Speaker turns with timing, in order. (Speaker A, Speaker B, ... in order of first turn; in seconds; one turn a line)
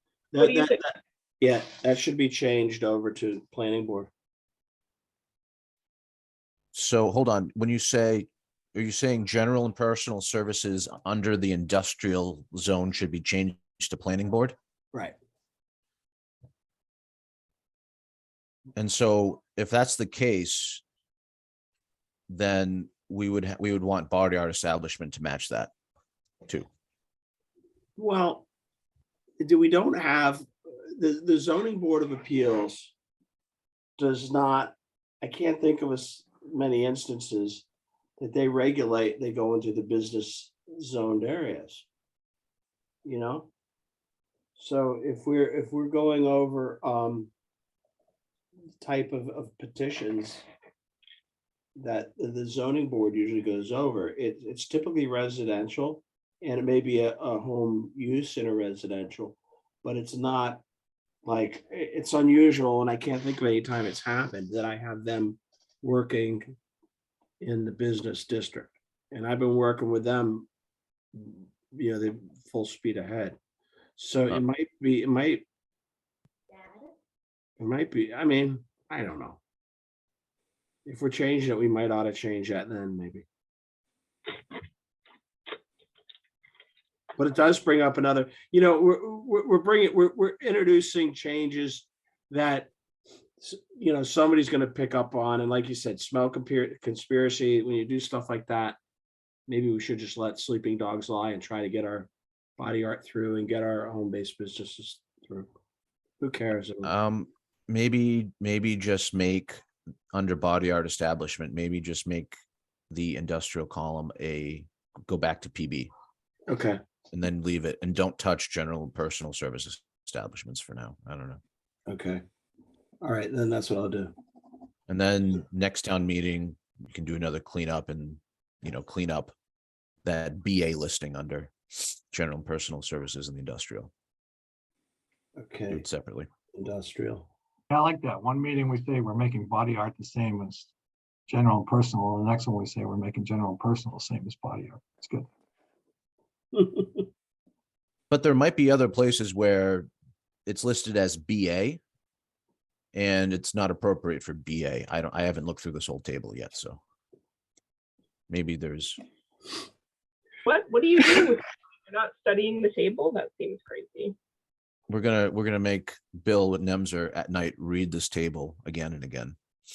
Speaker A: 0.3-4.1
Speaker B: 0.4-0.8
Speaker C: 6.7-14.5
Speaker C: 18.8-20.8
Speaker C: 22.3-25.7
Speaker A: 28.0-28.4
Speaker A: 29.4-32.9
Speaker A: 34.0-37.6
Speaker A: 38.2-41.9
Speaker A: 43.0-43.5
Speaker A: 44.5-47.3
Speaker A: 48.8-50.4
Speaker A: 51.8-60.6
Speaker A: 61.2-66.5
Speaker A: 67.4-70.5
Speaker A: 71.1-73.4
Speaker A: 74.0-75.4
Speaker A: 77.6-79.4
Speaker A: 80.8-83.2
Speaker A: 87.2-92.7
Speaker A: 93.4-98.8
Speaker A: 99.5-105.5
Speaker A: 106.2-106.9
Speaker C: 106.8-112.3
Speaker C: 112.9-115.9
Speaker A: 116.5-116.8
Speaker C: 117.1-121.4
Speaker A: 121.9-122.2
Speaker A: 123.0-124.1
Speaker C: 124.9-129.3
Speaker C: 130.0-133.9
Speaker A: 135.4-135.8
Speaker C: 135.7-136.3
Speaker A: 136.5-137.3
Speaker D: 137.7-140.7
Speaker D: 141.3-145.3
Speaker A: 146.5-147.1
Speaker C: 148.1-149.9
Speaker C: 150.4-151.8
Speaker C: 152.9-156.8
Speaker C: 158.3-159.0
Speaker B: 160.4-164.1
Speaker C: 164.9-169.3